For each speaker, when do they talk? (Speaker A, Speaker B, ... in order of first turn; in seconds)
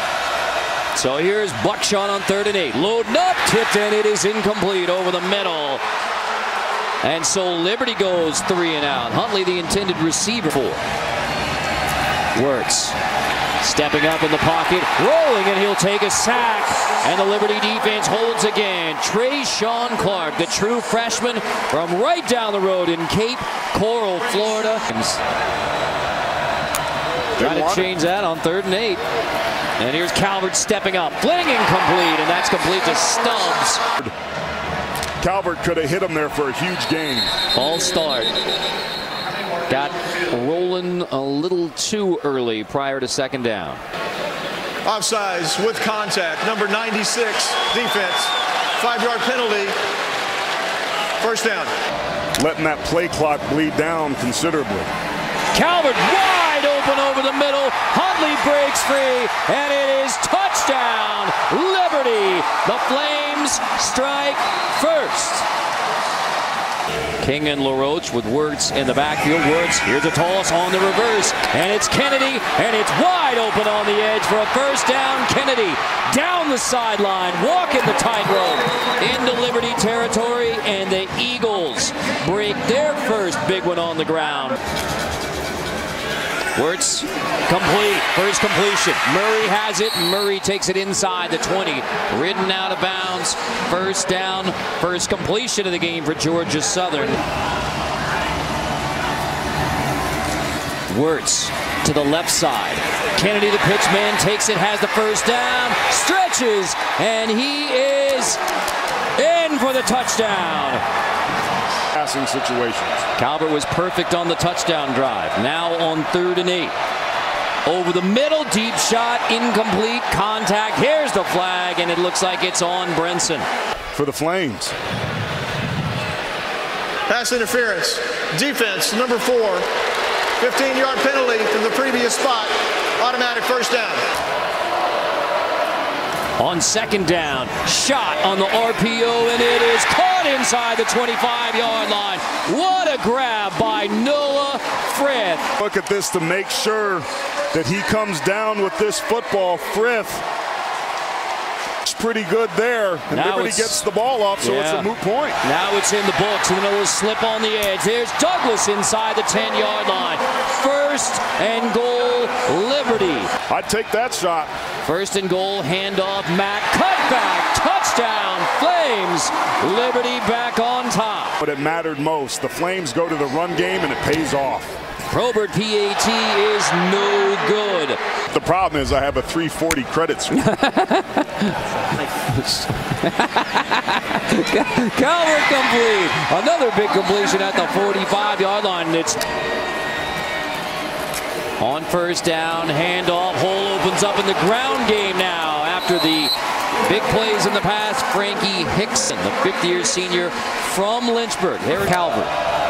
Speaker A: 0.9-5.8, 7.0-10.8, 12.3-13.0, 13.6-25.2, 27.4-29.0, 29.8-33.8, 37.5-38.3, 39.7-43.8, 55.5-65.5, 67.2-84.6, 86.5-97.2, 100.9-108.4, 109.2-110.8, 113.2-116.8, 117.7-123.5, 136.4-145.5, 153.1-153.8, 154.4-154.9, 155.4-163.3, 164.8-171.4, 175.1-178.0, 180.3-181.5, 182.2-189.2, 191.6-202.3
Speaker B: 27.4-27.9, 35.2-37.3, 52.4-54.9, 111.9-113.1, 123.9-124.8, 145.6-150.2, 151.8-155.4, 163.5-164.5, 171.4-174.8, 178.3-180.4
Speaker C: 44.9-49.8, 51.2-51.7, 127.1-129.7, 130.4-134.0